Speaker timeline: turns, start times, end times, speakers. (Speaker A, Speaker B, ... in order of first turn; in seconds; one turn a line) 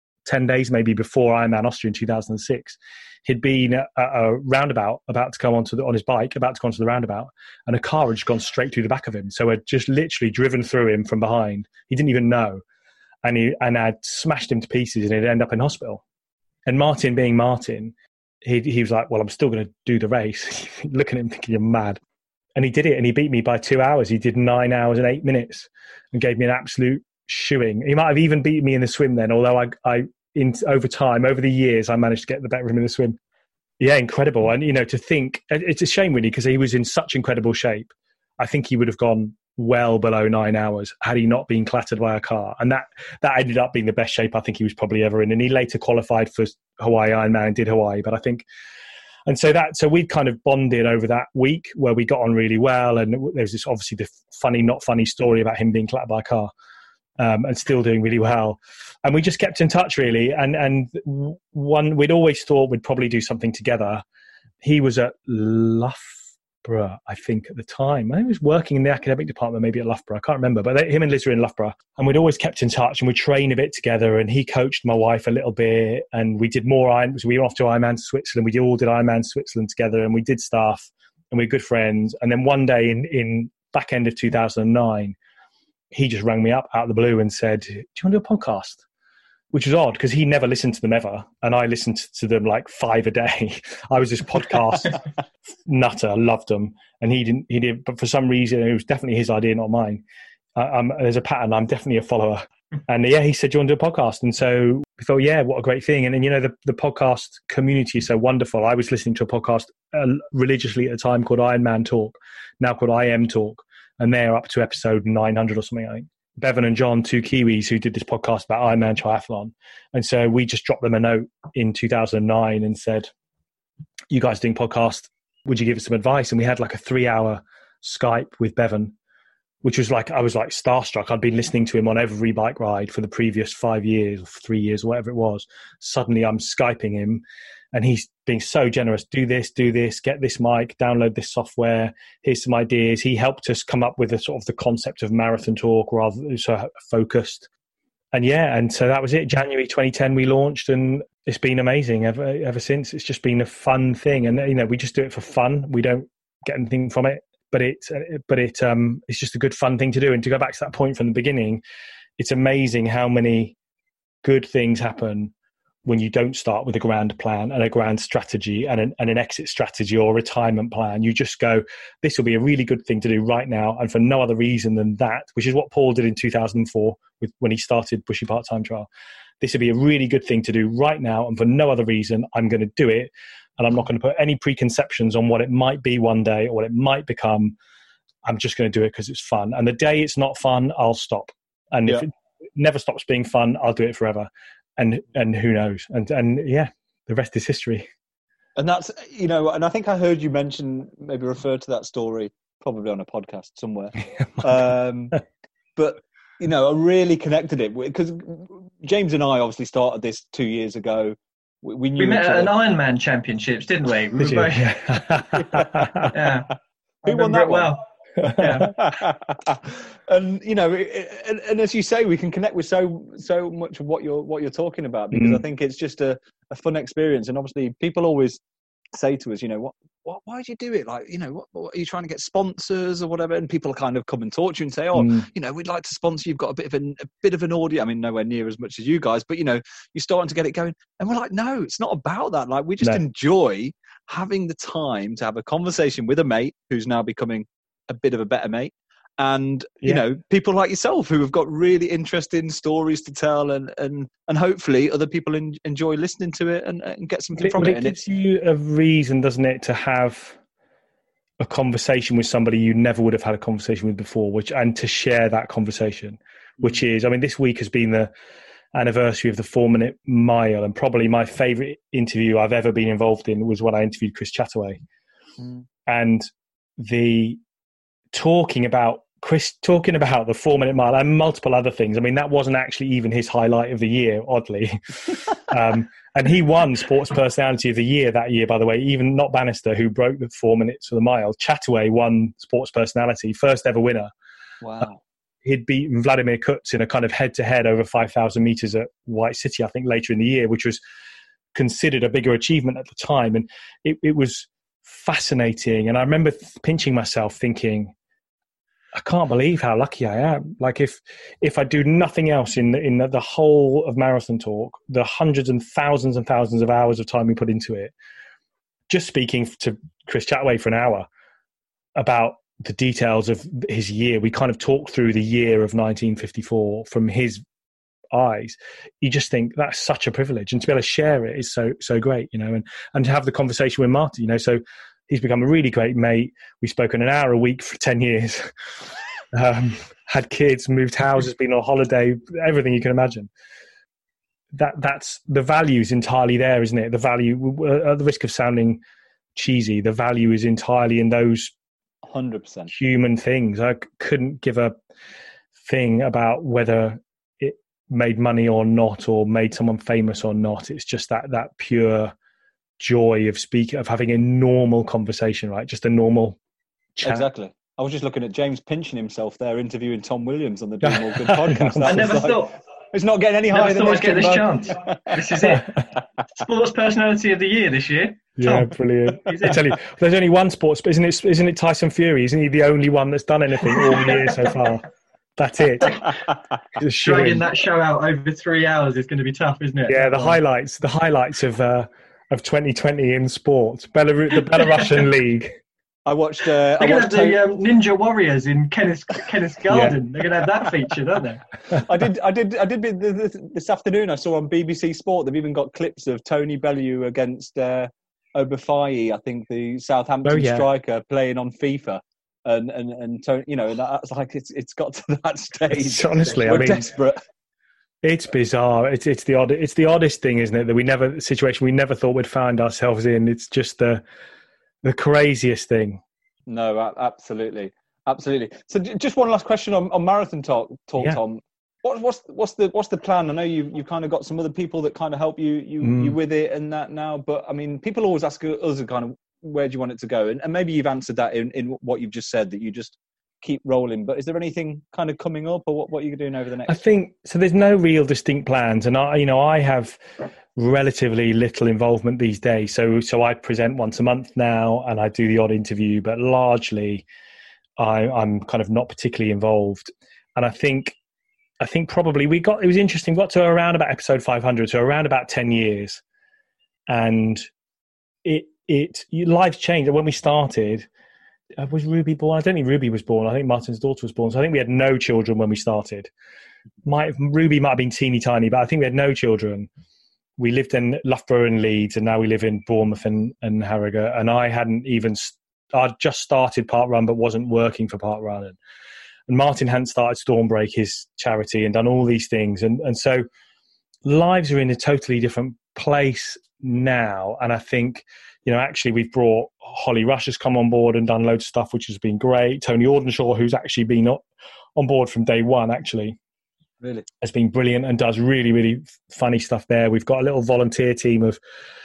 Speaker A: 0.3-12.6
Speaker A: 13.2-16.0
Speaker A: 16.7-22.0
Speaker A: 22.6-33.2
Speaker A: 33.8-48.5
Speaker A: 49.3-56.5
Speaker A: 57.2-64.0
Speaker A: 64.6-85.2
Speaker A: 85.9-88.8
Speaker A: 89.5-95.0
Speaker A: 95.7-100.0
Speaker A: 100.6-123.1
Speaker A: 124.1-128.9
Speaker A: 129.6-137.2
Speaker A: 137.7-147.5
Speaker A: 148.1-161.6
Speaker A: 162.2-163.6
Speaker A: 164.2-165.3
Speaker A: 165.8-178.9
Speaker A: 179.4-187.6
Speaker A: 188.2-197.9
Speaker B: 198.6-205.2
Speaker B: 205.8-212.5
Speaker C: 212.0-214.7
Speaker A: 214.2-216.1
Speaker B: 215.6-215.8
Speaker C: 216.1-216.5
Speaker B: 217.0-217.8
Speaker C: 217.1-217.8
Speaker A: 218.2-218.5
Speaker C: 218.4-218.7
Speaker B: 218.4-228.4
Speaker A: 225.1-225.4
Speaker B: 228.9-258.0
Speaker A: 234.9-235.3
Speaker A: 257.4-260.4
Speaker A: 261.4-268.1
Speaker A: 268.7-274.8
Speaker B: 275.4-275.6
Speaker A: 275.9-277.4
Speaker A: 278.1-294.1
Speaker B: 294.6-295.0
Speaker A: 295.4-300.8
Speaker A: 301.5-307.9
Speaker A: 308.9-317.9
Speaker A: 318.9-321.1
Speaker A: 322.0-327.4
Speaker A: 328.1-338.5
Speaker A: 339.3-343.3
Speaker A: 344.5-348.8
Speaker A: 349.4-351.5
Speaker B: 352.0-352.7
Speaker A: 352.7-354.8
Speaker A: 355.6-362.1
Speaker A: 362.8-366.4
Speaker A: 367.0-367.3
Speaker B: 367.0-375.5
Speaker A: 370.8-372.3
Speaker C: 371.9-372.6
Speaker C: 373.5-375.7
Speaker C: 376.3-378.6
Speaker A: 378.4-384.9
Speaker C: 379.3-379.6
Speaker A: 385.4-386.1
Speaker A: 386.8-387.5
Speaker C: 387.0-390.4
Speaker A: 389.9-395.5
Speaker B: 396.1-397.4
Speaker C: 396.8-401.5
Speaker A: 399.7-400.0
Speaker B: 401.7-417.2
Speaker A: 410.2-410.7
Speaker A: 415.7-416.9
Speaker A: 418.0-424.0
Speaker A: 424.8-426.0
Speaker B: 426.5-446.8
Speaker A: 435.8-436.2
Speaker A: 446.7-450.0
Speaker A: 450.6-457.1
Speaker A: 457.8-461.0
Speaker A: 461.6-466.0
Speaker A: 466.9-467.5
Speaker A: 468.2-470.9
Speaker A: 471.6-476.1
Speaker A: 476.9-479.7
Speaker A: 480.4-488.6
Speaker A: 489.3-493.3
Speaker A: 494.1-504.2
Speaker A: 504.8-506.2
Speaker B: 506.8-507.1
Speaker A: 507.2-511.4